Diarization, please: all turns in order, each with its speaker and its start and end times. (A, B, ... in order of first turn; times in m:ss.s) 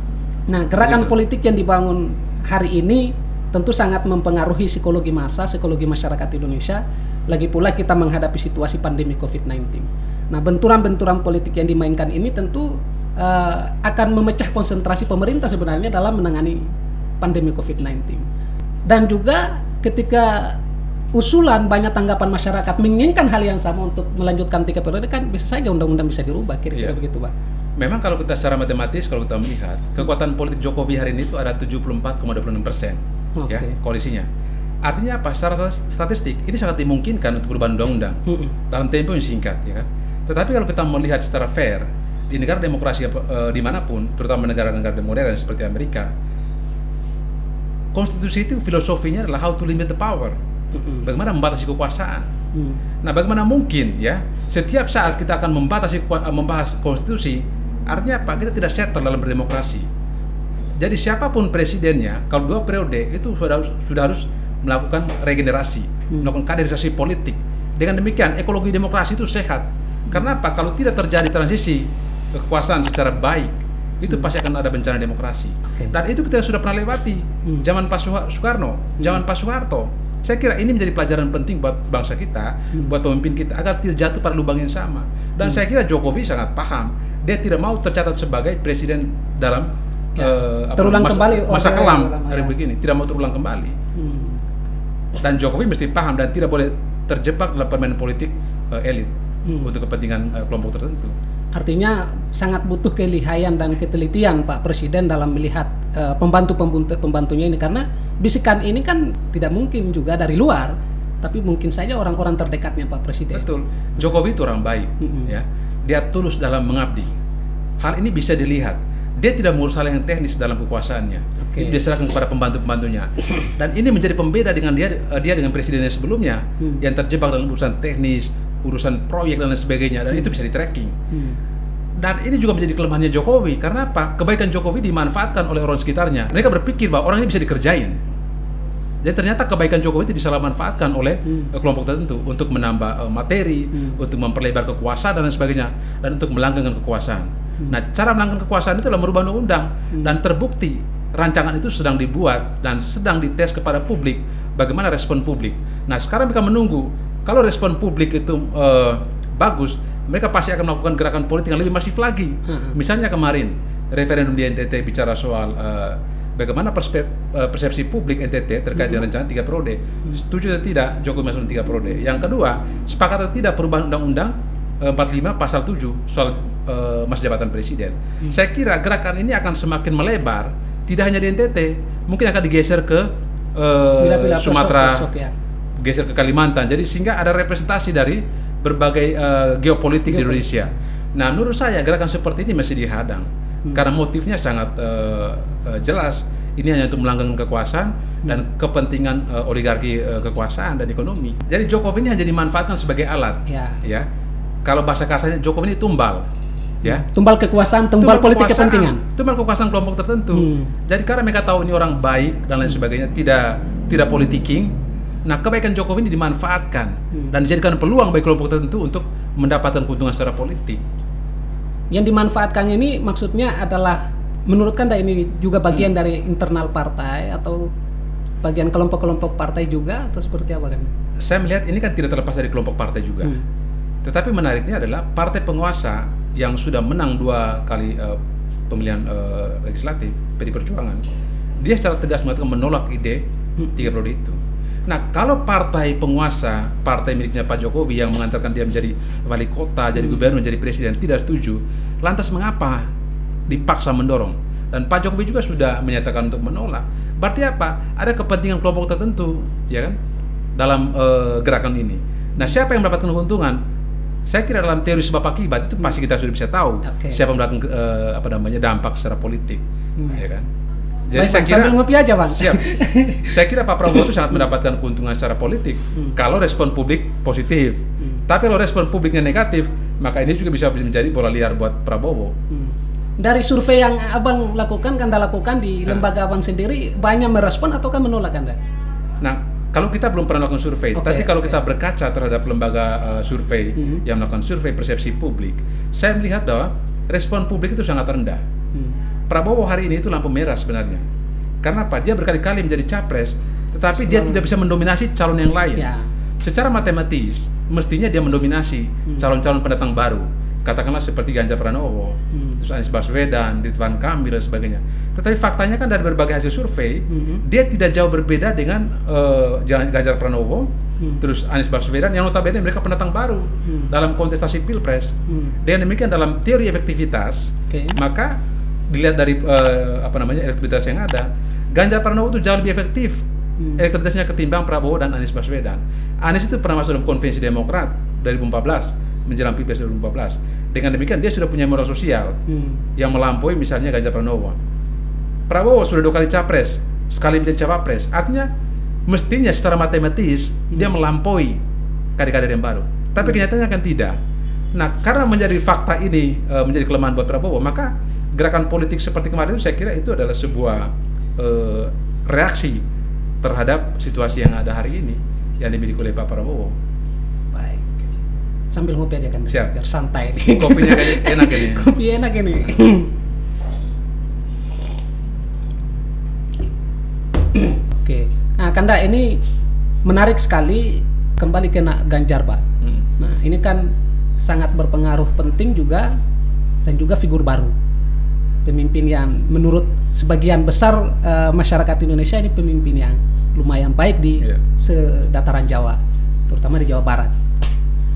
0:00.5-0:18.3 A
0:00.8-0:01.2 B
0:18.9-0:20.6 A
0:21.1-0:27.3 A
0:27.8-0:34.3 B
0:33.4-0:33.7 A
0:34.8-0:46.1 B
0:38.3-0:38.5 A
0:47.9-0:50.4 B
0:50.7-0:51.1 A
0:51.0-0:52.3 B
0:52.5-0:52.8 A
0:53.0-0:59.9 B
1:00.8-1:33.8 B
1:30.2-1:32.6 A
1:34.0-1:34.4 A
1:35.2-1:41.1 B
1:39.4-1:39.7 A
1:41.5-1:53.5 A
1:53.3-1:57.1 B
1:55.0-1:55.3 A
1:57.8-2:11.0 B
2:01.4-2:01.8 A
2:11.1-2:11.4 A
2:12.0-2:18.0 B
2:19.0-3:05.1 B
2:42.5-2:42.8 A
2:48.8-2:49.0 A
3:04.0-3:05.3 A
3:05.8-3:24.1 B
3:10.1-3:10.6 A
3:23.5-3:23.8 A
3:24.6-3:26.3 B
3:26.8-3:29.0 A
3:28.0-3:34.7 B
3:30.3-3:30.7 A
3:35.3-3:40.8 B
3:41.9-3:47.7 A
3:48.4-3:50.9 A
3:51.2-3:53.4 B
3:54.0-3:58.2 B
3:58.7-4:01.0 B
4:01.6-4:12.9 B
4:10.0-4:10.3 A
4:13.5-4:20.0 B
4:20.6-4:23.6 B
4:24.3-4:30.5 B
4:26.8-4:27.2 A
4:31.1-4:31.8 B
4:31.1-4:33.4 A
4:32.3-4:42.4 B
4:42.5-4:48.6 A
4:49.2-4:58.4 B
4:51.0-4:51.6 A
4:53.8-4:54.0 A
4:59.3-5:01.0 B
5:01.6-5:05.9 B
5:04.0-5:04.4 A
5:05.8-5:06.1 A
5:06.4-5:28.4 B
5:12.3-5:12.6 A
5:17.1-5:17.4 A
5:25.3-5:25.6 A
5:27.7-5:28.0 A
5:28.9-5:33.2 B
5:33.8-5:42.4 B
5:42.5-5:42.8 A
5:43.0-5:44.6 B
5:45.5-5:48.5 B
5:49.1-5:51.6 B
5:52.2-5:54.2 B
5:54.7-6:02.8 B
6:03.4-6:06.7 B
6:07.5-6:08.1 A
6:08.7-6:13.1 A
6:10.4-6:11.9 B
6:17.5-6:19.4 A
6:20.0-6:22.6 A
6:23.2-6:26.2 A
6:26.8-6:27.7 A
6:28.6-6:37.4 A